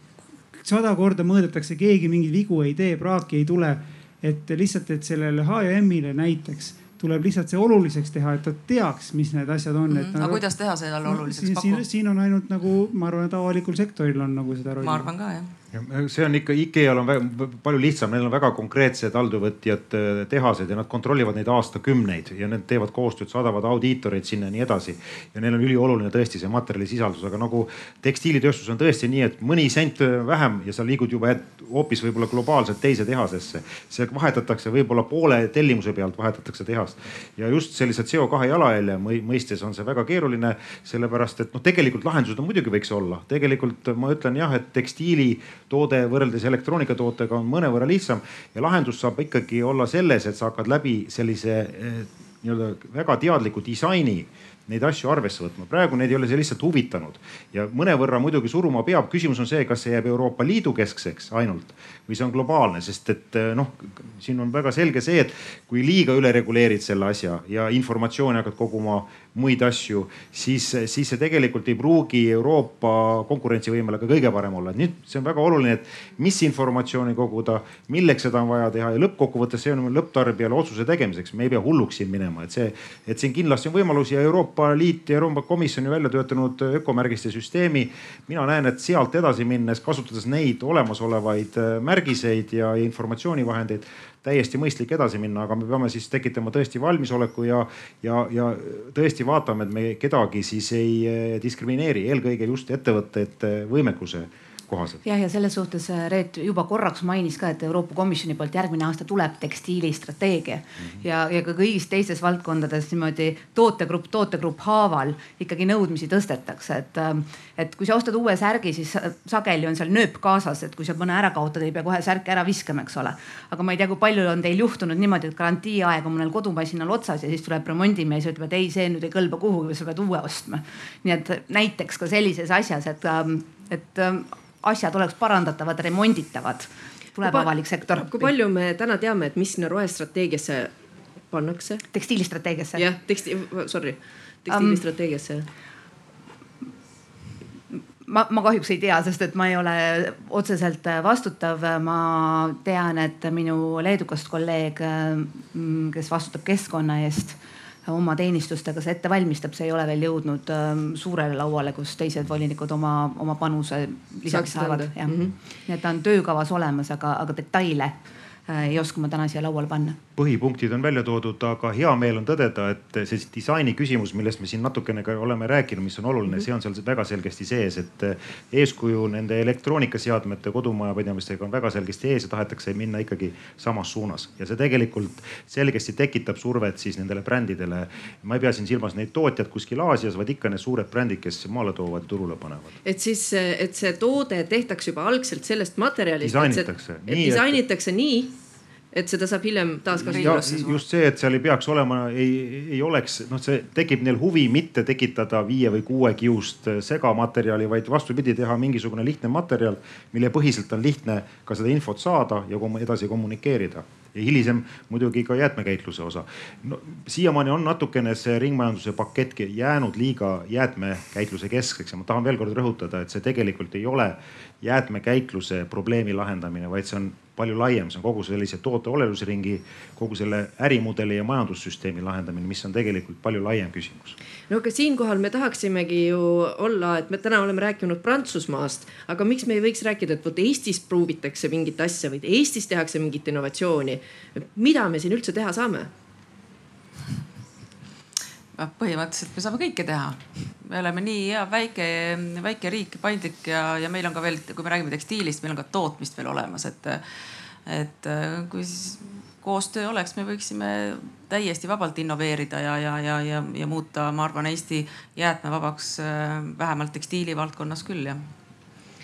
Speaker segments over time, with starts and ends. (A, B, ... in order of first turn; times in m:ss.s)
0:00.5-0:10.4 A
0:09.9-0:11.8 B
0:11.0-0:15.1 A
0:14.8-0:15.5 B
0:15.7-1:45.0 C
1:45.0-2:18.3 D
2:17.3-2:20.7 E
2:21.3-2:21.8 E
2:21.9-2:22.9 D
2:22.7-2:25.4 E
2:24.5-2:24.8 D
2:28.1-2:45.2 D
2:44.3-2:45.3 E
2:45.7-2:47.9 D
2:48.5-2:50.0 D
2:50.2-3:12.7 C
3:12.8-3:18.4 E
3:16.2-3:17.6 C
3:18.9-3:20.6 E
3:20.0-3:20.8 B
3:20.0-3:54.2 C
3:54.5-4:05.9 E
4:08.6-4:17.0 B
4:17.6-4:28.3 B